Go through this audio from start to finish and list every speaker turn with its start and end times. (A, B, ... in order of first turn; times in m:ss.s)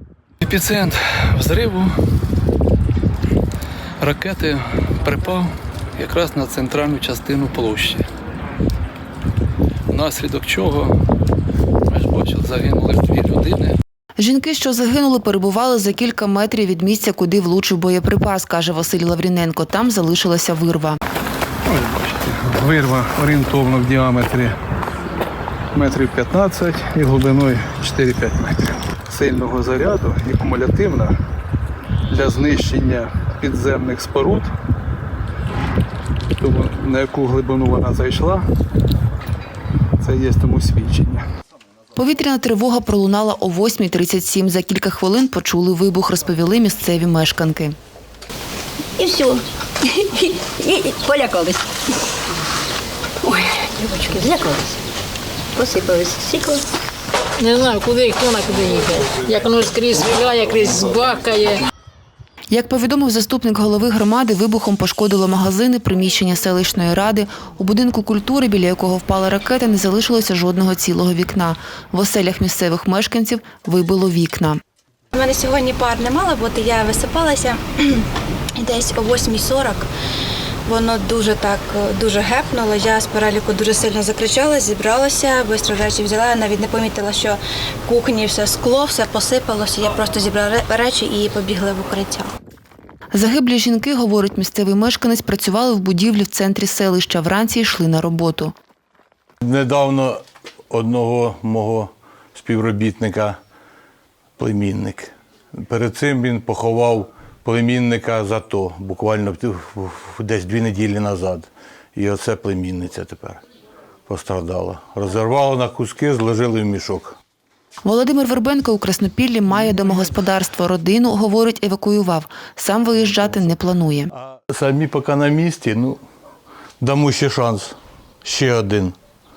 0:00.4-0:01.9 A
0:04.0-0:08.0 A
0:09.9-0:11.0 A
0:11.9-0:13.8 A
0:14.2-0:21.0 B
0:21.7-0:24.6 C
0:25.7-0:31.2 C
0:32.1-0:34.5 C
0:36.4-0:38.4 C
0:40.0-0:41.2 C
0:42.0-0:47.8 B
0:49.0-0:51.8 D
0:53.2-0:54.8 D
0:55.5-0:56.6 D
0:57.4-1:01.6 E
1:02.5-1:14.6 B
1:15.1-1:19.9 F
1:20.6-1:32.3 F
1:33.1-1:38.5 B
1:39.4-1:43.4 G
1:44.4-1:53.4 G
1:54.1-1:57.2 G
1:57.8-2:04.1 B
2:04.4-2:06.0 G
2:06.8-2:09.0 G